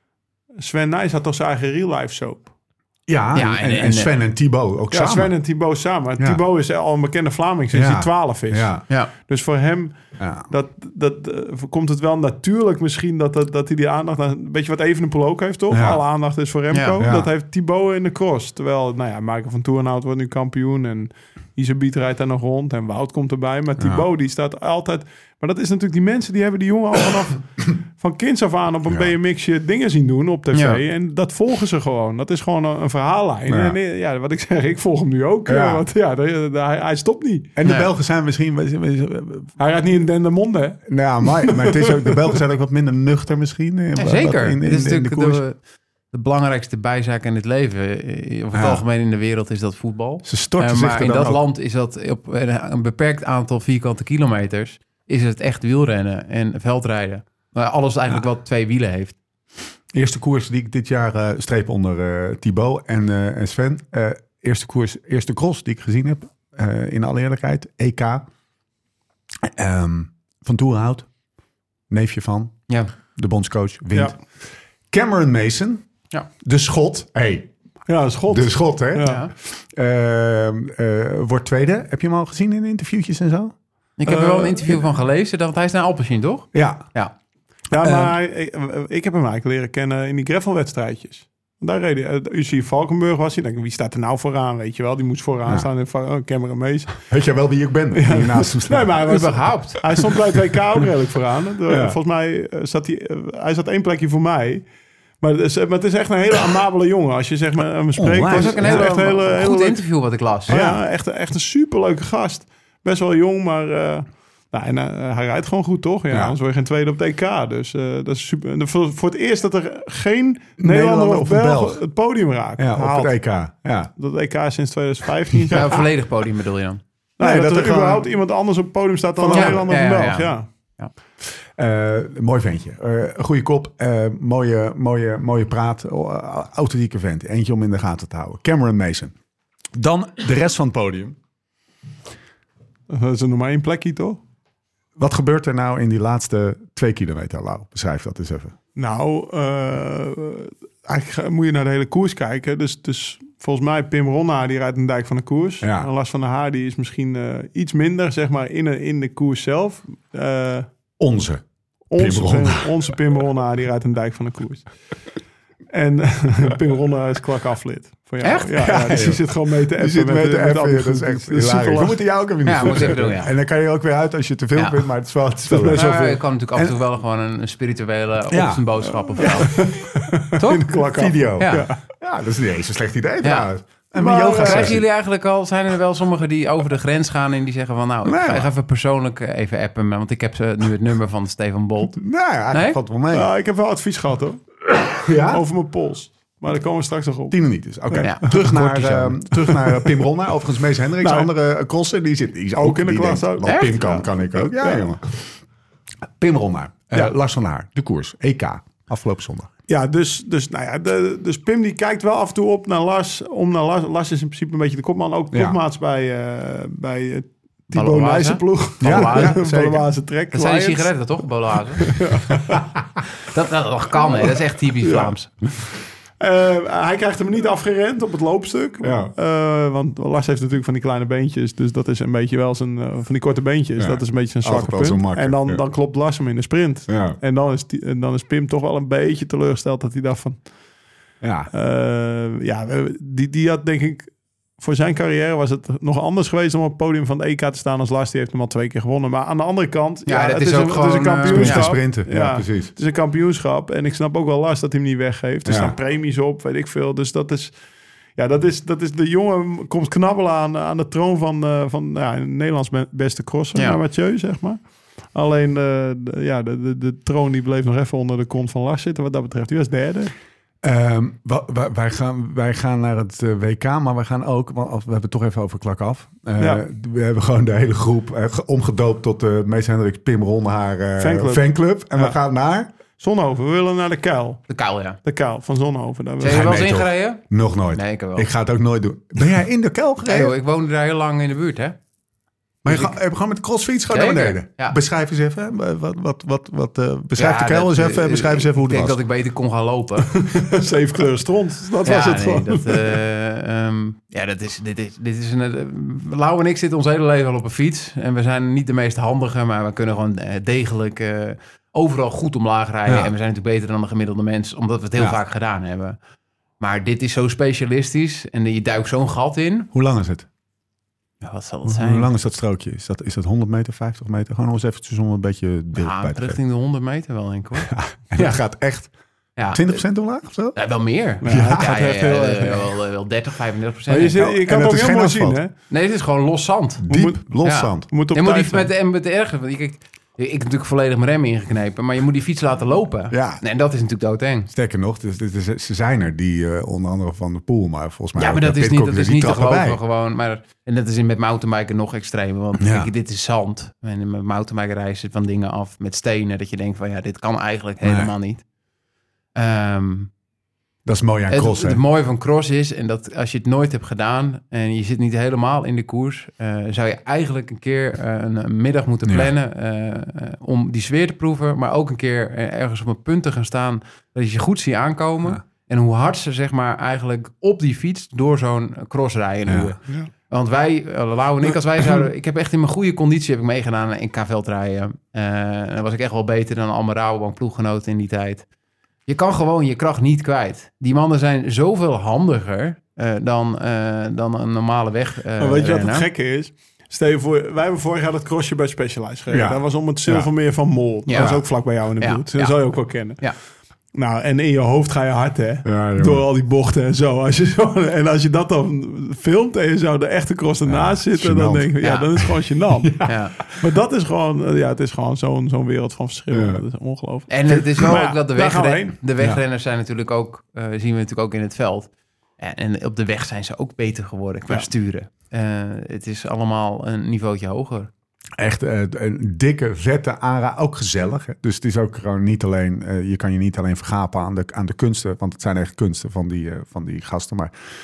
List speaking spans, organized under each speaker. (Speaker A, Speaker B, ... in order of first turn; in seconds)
Speaker A: 0.6-2.5, 4.9-10.0, 10.5-37.5, 39.6-42.4, 77.9-79.2, 84.0-84.8, 87.7-97.0, 97.9-104.6, 105.2-109.8, 110.5-123.2, 124.0-125.8, 127.2-130.4, 142.9-144.2, 148.8-160.7, 161.9-164.7, 165.7-172.0, 175.5-176.2, 179.2-181.8, 184.0-184.8, 193.1-194.6, 195.2-197.4, 199.5-199.9, 201.0-201.3, 202.6-204.9, 209.7-220.9, 221.8-222.4, 224.8-225.1, 226.2-240.4, 241.5-257.5, 258.2-264.6, 265.1-270.1, 276.4-276.6, 281.0-282.2, 283.0-284.4, 285.0-286.5, 300.1-303.0, 331.2-332.7, 333.9-335.5, 336.9-338.7, 395.4-403.2, 403.9-419.0
Speaker B: 3.1-5.3, 7.7-8.8, 10.2-10.5, 15.7-16.0, 17.0-17.3, 23.8-24.1, 33.5-33.8, 35.5-35.8, 37.5-39.5, 40.9-45.4, 48.5-48.8, 50.2-51.4, 59.9-68.2, 69.4-71.1, 71.9-74.2, 74.9-75.8, 76.4-77.5, 78.3-83.5, 86.5-86.9, 87.7-88.1, 97.0-99.0, 101.7-102.0, 108.0-108.9, 110.5-110.8, 116.1-116.3, 120.6-121.8, 122.6-123.9, 125.5-125.8, 127.2-128.1, 129.2-129.6, 131.5-139.1, 139.7-141.2, 145.0-148.5, 155.6-155.9, 161.0-161.4, 161.9-162.7, 168.6-175.9, 178.3-179.5, 180.9-184.8, 188.0-188.5, 191.9-193.3, 195.0-195.4, 197.3-205.3, 206.2-209.5, 215.3-215.6, 218.8-219.8, 228.8-229.1, 233.8-235.6, 236.9-237.2, 241.2-241.5, 251.3-252.7, 255.4-255.7, 270.6-282.7, 286.2-290.3, 292.6-299.0, 312.9-313.1, 319.7-320.3, 321.6-326.4, 327.6-328.9, 329.5-330.6, 331.2-331.8, 334.1-335.4, 336.8-337.9, 343.1-343.4, 344.5-349.8, 352.6-352.9, 357.8-358.1, 360.9-361.8, 379.5-379.7, 399.3-400.3, 401.1-401.4, 405.6-406.2, 410.6-413.1, 416.3-416.6, 428.4-437.5
Speaker C: 3.3-4.1, 16.7-17.0, 30.5-30.8, 44.0-45.6, 46.1-59.1, 79.0-79.3, 84.0-87.1, 99.0-99.8, 108.3-110.5, 125.5-126.8, 129.3-130.9, 168.2-168.6, 172.4-173.3, 174.6-174.8, 175.7-179.6, 180.3-180.8, 181.3-181.7, 183.2-183.5, 184.3-192.0, 192.5-192.8, 198.0-199.2, 203.4-203.9, 217.7-219.4, 220.3-221.9, 223.2-225.3, 250.1-251.7, 284.5-285.0, 286.2-287.2, 287.7-288.3, 290.0-291.8, 292.7-292.9, 293.9-294.8, 297.1-300.1, 301.8-316.0, 316.6-319.7, 321.2-322.1, 325.8-328.4, 329.4-329.8, 330.5-334.2, 335.7-336.9, 337.4-344.5, 348.1-358.4, 359.3-360.1, 361.3-388.4, 389.1-396.1, 401.1-403.4, 411.8-412.1, 413.1-413.4, 417.3-427.9